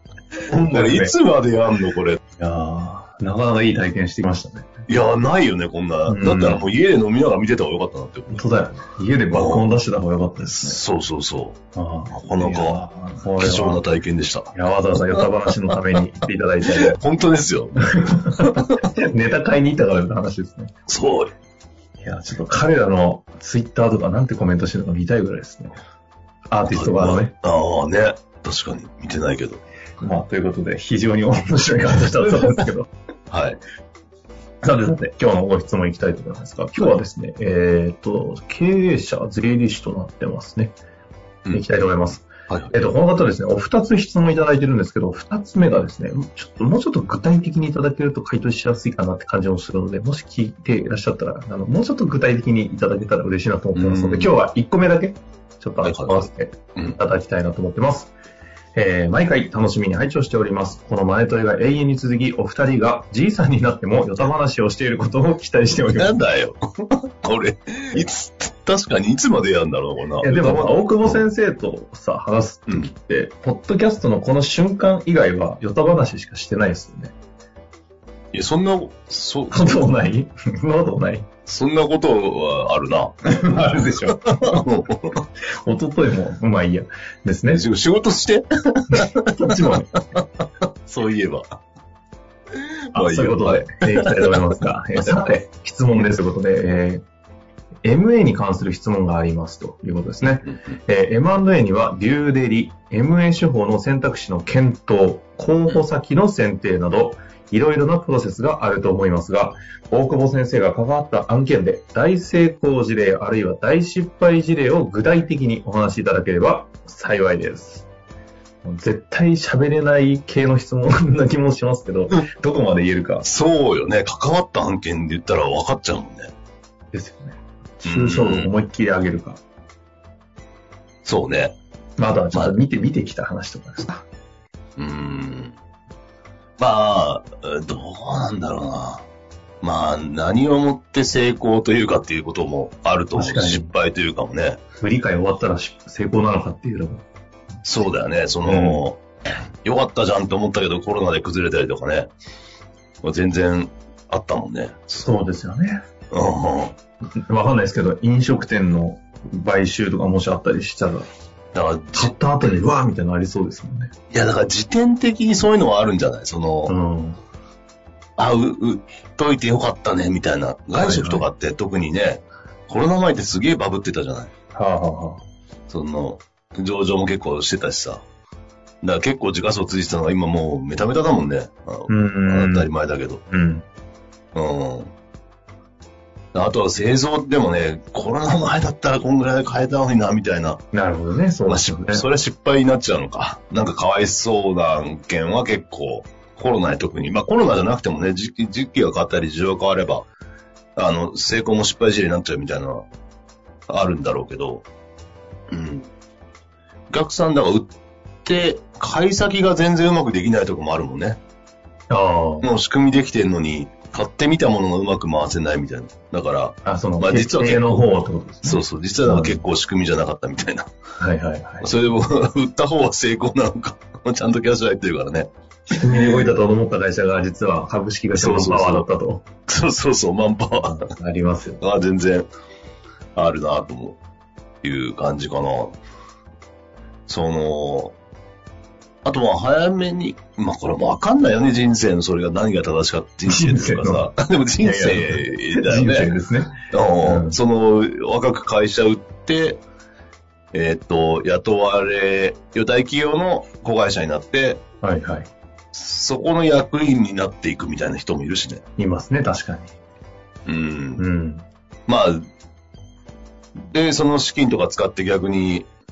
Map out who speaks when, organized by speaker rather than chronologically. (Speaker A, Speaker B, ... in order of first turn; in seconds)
Speaker A: 0.5-1.1, 2.4-4.7, 6.1-6.7, 8.3-10.8, 11.7-13.8, 14.5-17.0, 17.8-20.7, 22.0-25.8, 26.5-27.3, 30.0-32.9, 34.6-40.8, 41.5-58.1, 58.7-66.2, 70.2-77.1, 79.5-81.3, 83.2-84.6, 85.6-87.6, 89.0-89.9, 92.9-97.0, 97.8-117.9, 118.6-123.2, 126.9-129.4, 132.0-134.0, 143.1-143.7, 144.8-147.0, 148.4-148.8, 155.0-155.8, 157.2-161.1, 161.9-163.9, 166.7-167.2, 170.8-171.3, 174.5-175.2, 181.9-182.7, 183.3-183.7, 190.7-192.1, 211.9-212.5, 216.6-219.4, 221.0-221.7, 225.7-229.2, 230.5-231.6, 243.3-247.4, 254.8-255.3, 258.8-259.7, 261.0-261.4
Speaker B: 0.7-2.2, 4.9-8.5, 9.3-9.7, 10.4-11.6, 12.1-12.8, 13.4-14.5, 16.6-18.8, 20.9-21.3, 26.7-29.6, 33.3-33.6, 42.3-42.8, 53.8-54.4, 55.8-57.0, 65.9-71.2, 78.3-79.9, 81.5-85.2, 87.5-89.7, 90.6-91.6, 92.9-94.6, 123.2-126.3, 127.8-128.5, 131.0-131.6, 134.8-135.6, 136.6-139.1, 139.6-144.6, 147.6-149.0, 149.6-152.1, 153.0-155.1, 156.1-156.8, 161.5-162.6, 164.1-166.7, 168.2-174.3, 175.7-178.0, 178.8-183.2, 184.3-184.9, 186.3-190.6, 191.5-200.1, 200.8-202.9, 203.7-204.6, 205.5-205.9, 206.9-207.7, 208.2-211.2, 212.4-217.9, 218.4-220.7, 221.6-226.2, 228.1-228.9, 229.5-230.9, 231.6-232.3, 233.2-234.0, 234.6-235.8, 237.1-237.9, 239.0-246.1, 246.7-249.6, 250.5-254.6, 255.7-258.6, 260.4-261.0, 261.9-262.3, 263.7-265.7